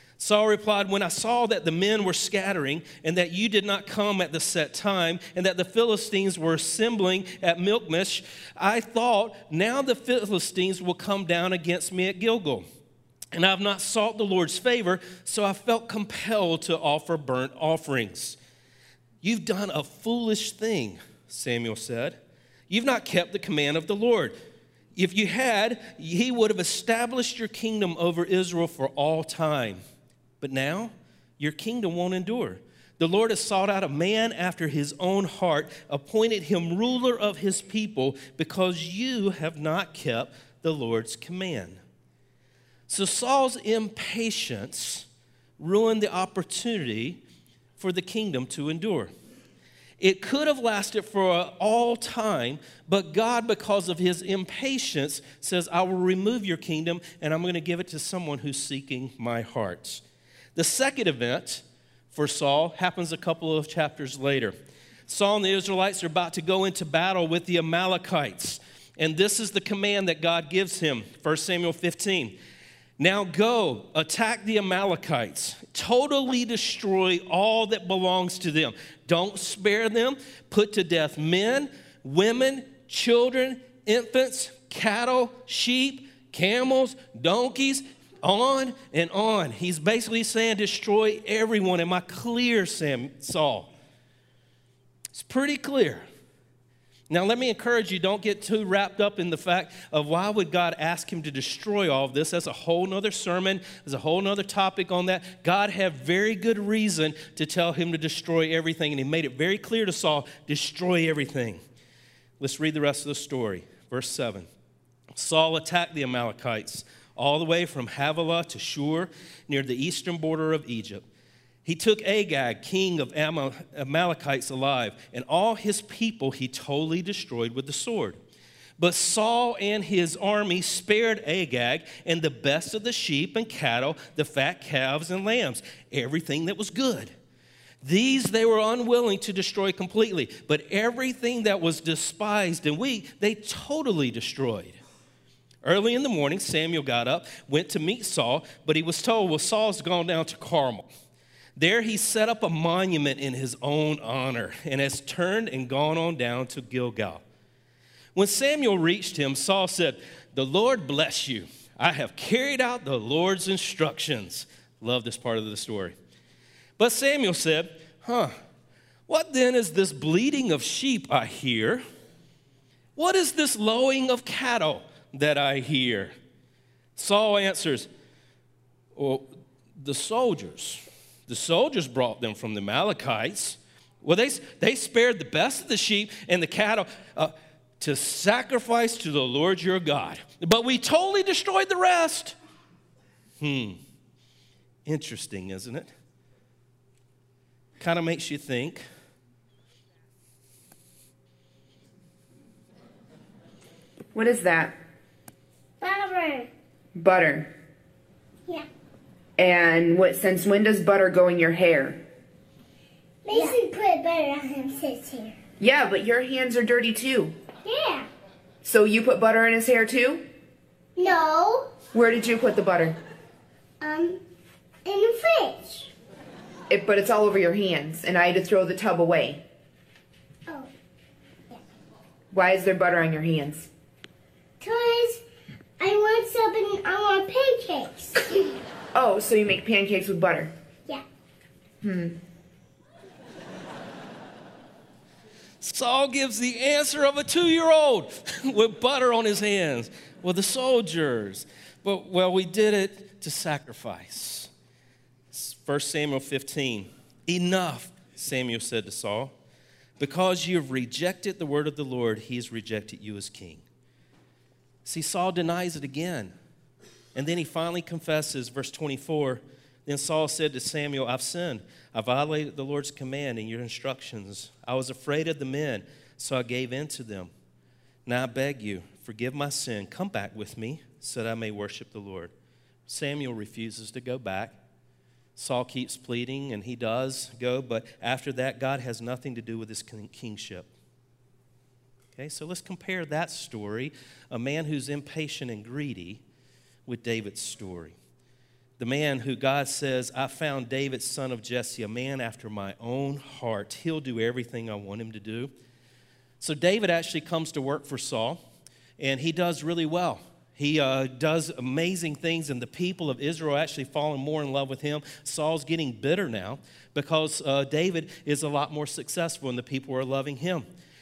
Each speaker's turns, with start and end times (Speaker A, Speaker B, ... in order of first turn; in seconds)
Speaker A: 0.2-12.6, 13.3-18.4, 19.2-24.4, 24.9-29.8, 30.4-41.8, 42.9-45.1, 45.6-47.2, 47.8-49.1, 50.0-60.0, 60.5-64.5, 65.1-72.4, 73.0-93.7, 95.1-96.0, 97.1-111.6, 112.4-114.5, 115.1-121.0, 121.6-128.2, 128.8-137.1, 137.8-144.8, 145.6-150.9, 151.6-157.2, 158.1-165.9, 166.8-168.3, 169.1-171.8, 172.9-176.1, 176.9-177.9, 178.9-192.3, 193.4-193.8, 194.8-195.9, 197.8-198.8, 245.6-254.5, 255.3-259.3, 260.0-263.6, 264.8-266.3, 267.1-277.3, 278.1-282.3, 282.9-284.6, 285.4-290.7, 292.1-296.2, 296.9-297.9, 298.8-305.5, 306.4-308.4, 309.0-320.6
Speaker B: 204.1-204.8, 206.9-207.5, 209.4-212.0, 215.6-217.3, 218.6-220.2, 221.9-222.9, 226.7-229.4, 232.3-233.7, 238.9-240.5, 241.8-242.2
Speaker C: 205.8-206.5, 213.2-215.4, 217.6-218.1, 220.9-221.7, 223.8-224.2, 224.8-225.9, 234.6-235.2, 235.8-238.6